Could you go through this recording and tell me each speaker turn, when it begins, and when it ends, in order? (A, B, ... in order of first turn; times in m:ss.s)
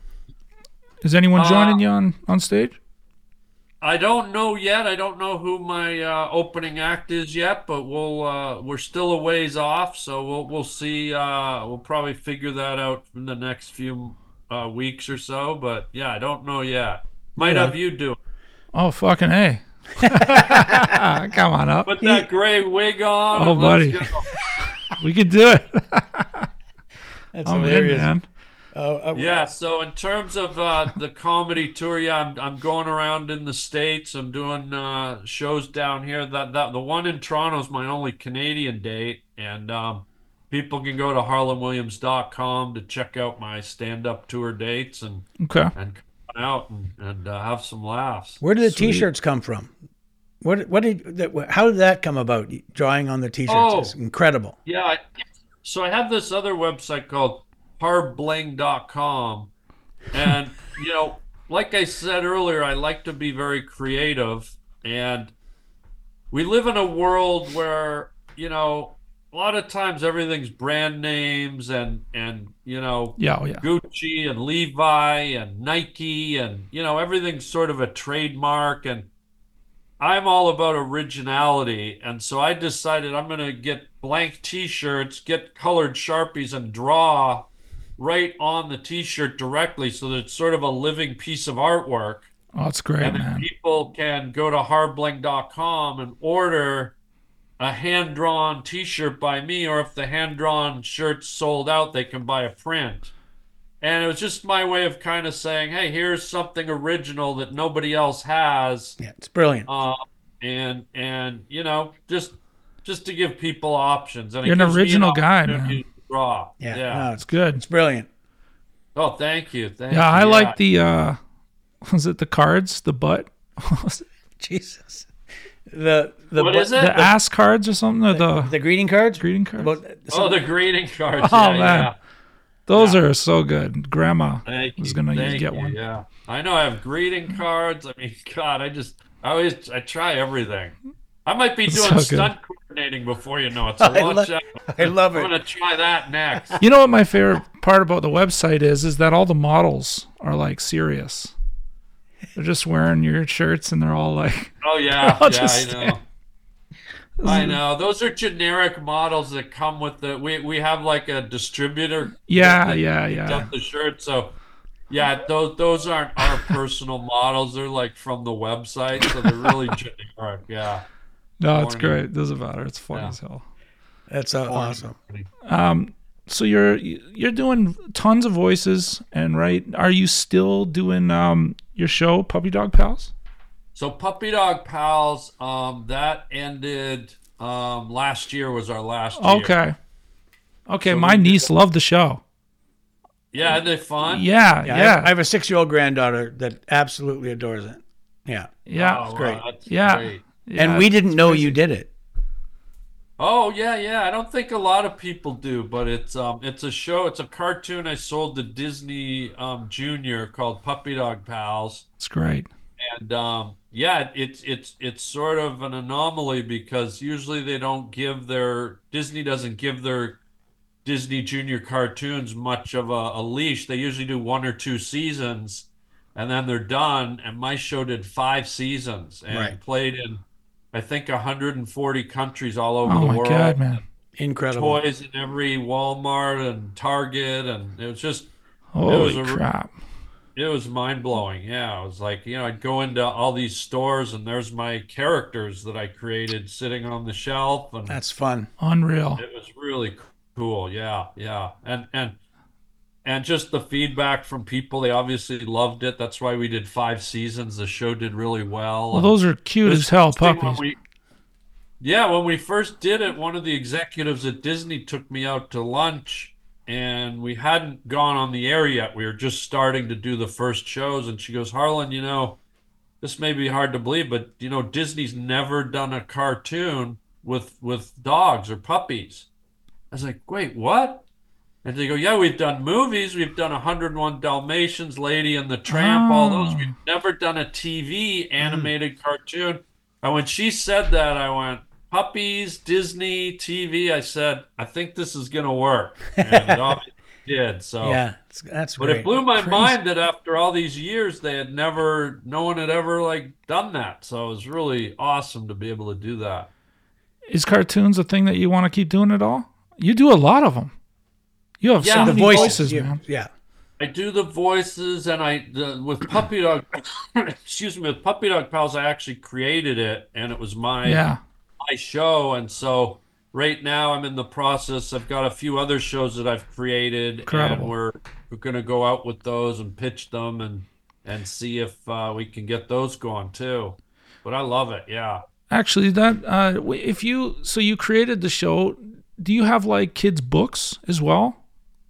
0:01.0-0:02.8 A
0:01.4-0:01.8 B
0:03.8-0:18.2 B
0:17.4-0:17.8 C
0:18.7-0:22.2 A
0:20.1-0:20.8 C
0:21.8-0:24.3 B
0:23.4-0:24.1 A
0:24.8-0:26.5 A
0:27.3-0:28.1 C
0:27.4-0:28.2 A
0:28.7-0:29.4 C
0:29.1-0:48.4 B
0:45.4-0:45.7 A
0:48.4-0:49.7 C
0:48.6-0:49.1 A
0:50.4-0:54.6 C
0:53.5-0:54.0 B
0:54.7-0:55.0 B
0:55.6-0:59.5 B
1:00.1-1:05.3 B
1:06.3-1:19.1 B
1:13.2-1:13.6 A
1:20.0-1:32.3 B
1:32.5-1:33.5 A
1:33.0-1:37.0 B
1:37.6-1:43.1 B
1:43.8-1:49.0 B
1:49.0-1:49.7 C
1:49.7-1:57.1 B
1:54.4-1:55.8 A
1:56.6-1:58.1 C
1:57.2-1:57.6 A
1:59.0-2:00.6 B
1:59.9-2:01.2 A
2:01.9-2:04.0 A
2:04.4-2:05.1 C
2:05.7-2:07.2 C
2:06.4-2:07.0 B
2:06.8-2:08.5 A
2:08.1-2:10.4 C
2:09.2-2:09.7 A
2:10.1-2:12.0 B
2:11.2-2:11.9 A
2:12.7-2:15.8 A
2:12.7-2:13.0 B
2:14.4-2:26.6 B
2:21.7-2:22.3 A
2:23.8-2:25.3 C
2:26.6-2:31.3 A
2:32.4-2:36.0 A
2:34.6-2:36.0 B
2:37.2-2:37.6 A
2:37.2-2:44.4 B
2:42.3-2:43.5 A
2:44.9-2:50.8 B
2:49.2-2:49.5 A
2:51.4-2:53.4 A
2:51.5-2:52.0 B
2:52.9-2:53.2 B
2:54.1-2:55.0 C
2:54.5-2:55.3 B
2:55.5-3:03.1 A
3:03.8-3:09.6 B
3:09.2-3:09.8 A
3:10.7-3:12.2 A
3:10.8-3:11.5 B
3:13.3-3:14.2 B
3:13.5-3:15.1 A
3:14.6-3:19.4 C
3:18.7-3:21.6 A
3:18.7-3:20.2 B
3:20.6-3:21.9 C
3:23.2-3:31.9 B
3:32.0-3:32.5 A
3:32.8-3:40.2 B
3:40.8-3:53.6 B
3:49.3-3:49.6 C
3:52.9-3:53.8 A
3:54.2-3:54.8 C
3:54.5-3:58.3 B
3:58.7-3:59.7 A
3:58.8-3:59.4 B
4:00.4-4:08.0 B
4:07.9-4:08.5 C
4:08.6-4:09.2 A
4:09.2-4:12.2 B
4:13.0-4:20.8 B
4:18.9-4:20.6 A
4:21.8-4:32.4 B
4:33.0-4:39.3 B
4:39.9-4:41.0 B
4:41.6-4:58.0 B
4:45.7-4:46.7 A
4:48.4-4:48.7 C
4:56.2-4:56.7 C
4:57.8-4:59.2 C
4:58.8-5:06.5 B
4:59.4-4:59.7 A
5:07.3-5:10.7 A
5:11.6-5:13.0 A
5:11.8-5:12.6 B
5:12.0-5:13.3 C
5:13.8-5:21.0 B
5:20.8-5:21.2 A
5:21.6-5:35.2 B
5:27.3-5:27.7 A
5:35.5-5:41.4 A